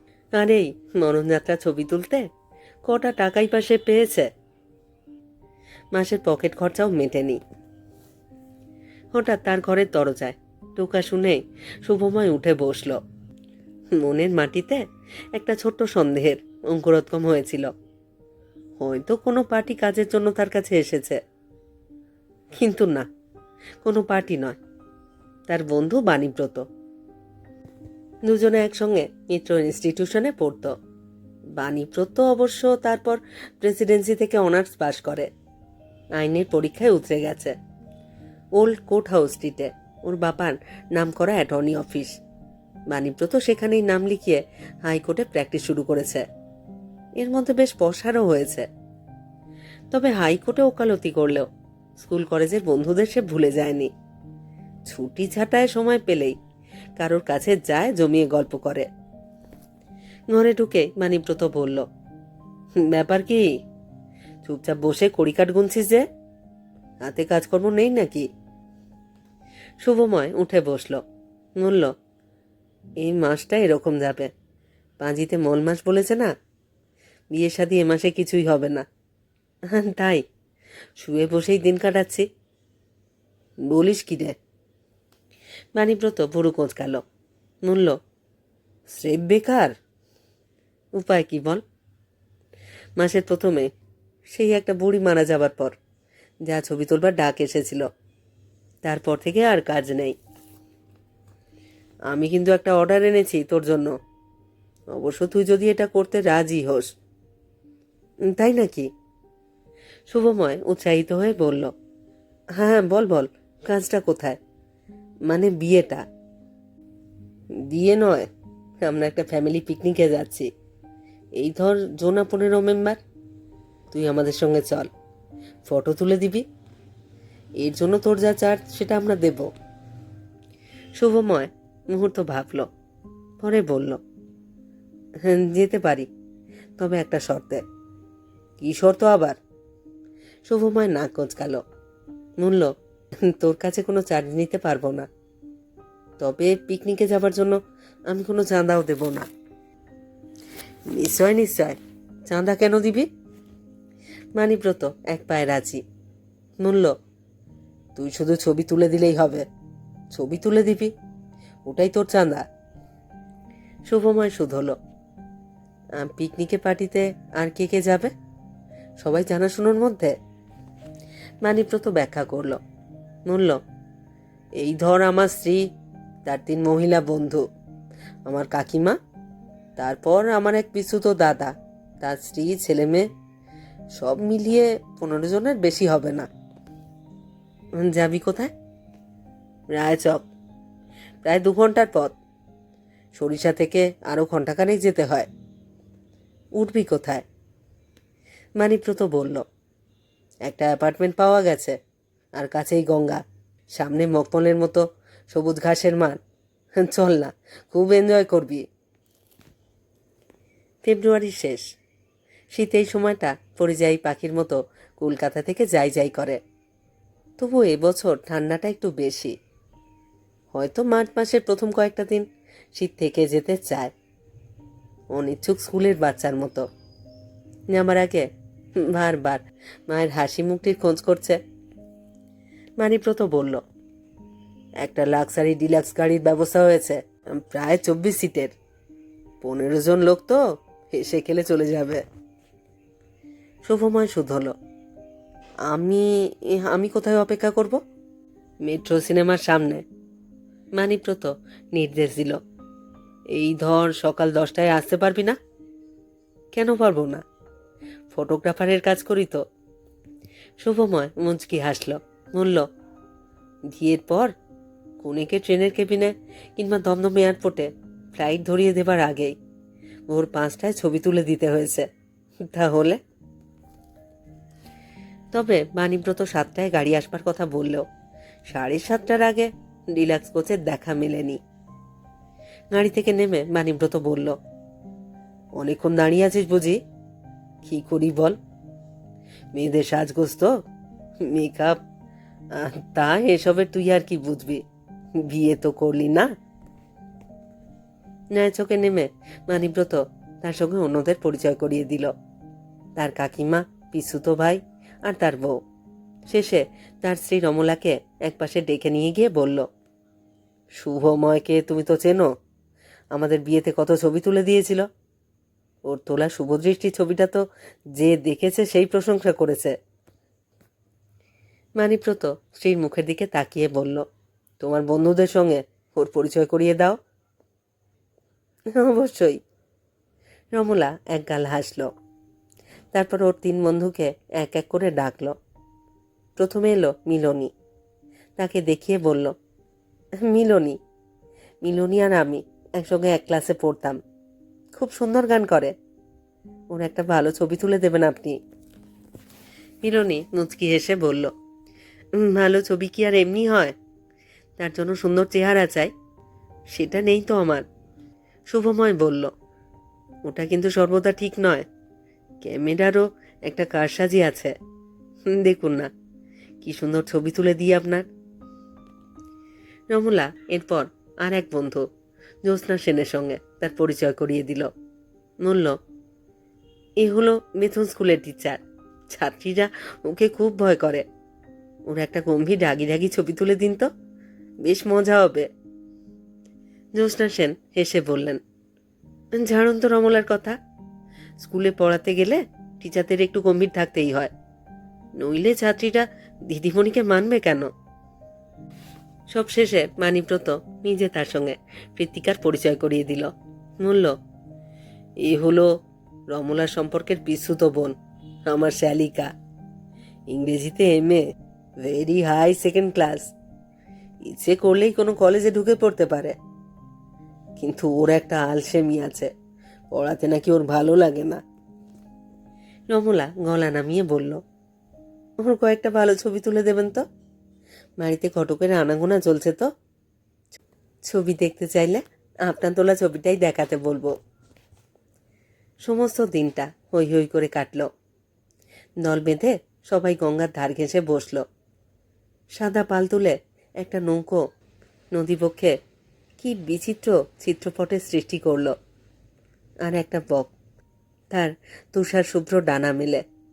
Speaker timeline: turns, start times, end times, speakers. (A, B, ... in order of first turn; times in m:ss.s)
0:00.3-0:02.3 A
0:02.8-0:04.3 A
0:05.9-0:07.4 A
0:09.1-0:13.0 A
0:13.9-0:17.7 A
0:18.8-0:21.2 A
0:22.5-0:23.1 A
0:23.8-0:24.6 A
0:25.5-0:26.6 A
0:28.2-0:30.7 A
0:31.5-0:35.3 A
0:36.1-0:37.6 A
0:38.5-0:42.2 A
0:42.9-0:46.2 A
0:47.2-0:48.7 A
0:49.9-0:53.9 A
0:54.8-0:56.4 A
0:57.0-0:58.9 A
1:00.3-1:01.9 A
1:02.8-1:03.5 A
1:04.4-1:06.1 A
1:07.0-1:08.3 A
1:09.8-1:11.0 A
1:11.6-1:11.9 A
1:13.0-1:14.3 A
1:15.0-1:16.3 A
1:17.3-1:18.8 A
1:19.7-1:20.2 A
1:21.0-1:22.2 A
1:23.7-1:24.4 A
1:25.7-1:27.0 A
1:27.6-1:28.0 A
1:28.9-1:29.8 A
1:30.9-1:31.6 A
1:33.0-1:33.7 A
1:34.3-1:35.8 A
1:36.4-1:37.9 A
1:38.8-1:40.2 A
1:42.1-1:43.9 A
1:44.9-1:46.9 A
1:48.3-1:48.9 A
1:50.1-1:51.7 A
1:52.6-1:54.4 A
1:55.2-1:56.0 A
1:57.7-1:58.3 A
1:58.8-2:00.5 A
2:01.4-2:03.0 A
2:03.9-2:04.9 A
2:05.6-2:06.4 A
2:07.6-2:09.5 A
2:11.0-2:12.7 A
2:13.4-2:14.0 A
2:15.2-2:16.1 A
2:16.8-2:17.6 A
2:18.6-2:19.4 A
2:20.4-2:21.6 A
2:22.4-2:22.7 A
2:23.2-2:25.1 A
2:26.2-2:29.3 A
2:30.9-2:33.1 A
2:34.3-2:35.8 A
2:36.6-2:36.9 A
2:37.9-2:39.4 A
2:40.1-2:40.9 A
2:41.6-2:42.4 A
2:43.9-2:44.8 A
2:46.0-2:48.1 A
2:49.0-2:50.1 A
2:51.4-2:52.6 A
2:53.2-2:53.6 A
2:54.6-2:55.6 A
2:56.2-2:57.4 A
2:58.2-2:59.0 A
2:59.8-3:03.1 A
3:03.9-3:06.3 A
3:07.8-3:08.5 A
3:09.7-3:10.3 A
3:11.2-3:12.2 A
3:13.1-3:15.3 A
3:16.6-3:17.2 A
3:18.6-3:19.4 A
3:20.4-3:21.8 A
3:22.4-3:26.2 A
3:26.8-3:28.6 A
3:30.8-3:31.7 A
3:32.5-3:36.4 A
3:37.4-3:39.3 A
3:40.5-3:43.9 A
3:45.1-3:46.7 A
3:47.7-3:51.4 A
3:52.8-3:53.6 A
3:54.8-3:58.5 A
3:59.4-4:02.0 A
4:03.6-4:04.5 A
4:05.7-4:07.8 A
4:08.6-4:09.8 A
4:10.8-4:12.4 A
4:13.3-4:15.4 A
4:16.5-4:17.2 A
4:18.1-4:19.4 A
4:20.6-4:22.7 A
4:23.7-4:24.3 A
4:25.0-4:29.4 A
4:30.1-4:31.9 A
4:32.5-4:33.0 A
4:35.3-4:37.8 A
4:38.4-4:41.4 A
4:42.7-4:44.4 A
4:45.6-4:46.8 A
4:47.6-4:48.4 A
4:49.5-4:50.5 A
4:51.2-4:51.8 A
4:52.5-4:54.6 A
4:55.2-4:56.3 A
4:58.3-5:02.1 A
5:03.0-5:05.6 A
5:06.3-5:09.7 A
5:10.7-5:12.3 A
5:13.1-5:14.9 A
5:15.8-5:17.4 A
5:17.9-5:19.7 A
5:21.8-5:24.0 A
5:24.6-5:27.0 A
5:28.7-5:29.4 A
5:30.5-5:31.9 A
5:32.9-5:35.4 A
5:36.4-5:37.5 A
5:38.4-5:39.3 A
5:40.2-5:40.8 A
5:41.6-5:44.0 A
5:44.7-5:45.7 A
5:46.7-5:48.4 A
5:49.8-5:51.3 A
5:52.1-5:53.8 A
5:54.6-5:55.9 A
5:56.7-5:57.6 A
5:58.5-5:59.3 A
6:00.2-6:01.6 A
6:02.4-6:04.5 A
6:05.3-6:05.9 A
6:06.6-6:08.0 A
6:09.9-6:11.9 A
6:12.4-6:14.7 A
6:15.4-6:15.8 A
6:17.0-6:21.0 A
6:21.8-6:23.9 A
6:24.6-6:25.5 A
6:26.9-6:28.4 A
6:29.3-6:30.6 A
6:31.4-6:34.3 A
6:35.2-6:37.7 A
6:39.3-6:44.2 A
6:45.2-6:45.7 A
6:46.3-6:49.3 A
6:50.3-6:51.2 A
6:51.8-6:53.3 A
6:54.2-6:56.4 A
6:57.6-6:59.3 A
6:59.9-7:01.4 A
7:02.9-7:04.4 A
7:05.4-7:07.0 A
7:08.0-7:09.7 A
7:11.0-7:14.1 A
7:15.8-7:17.9 A
7:19.0-7:21.4 A
7:22.5-7:24.4 A
7:25.1-7:25.8 A
7:26.4-7:28.8 A
7:29.8-7:30.5 A
7:31.3-7:33.2 A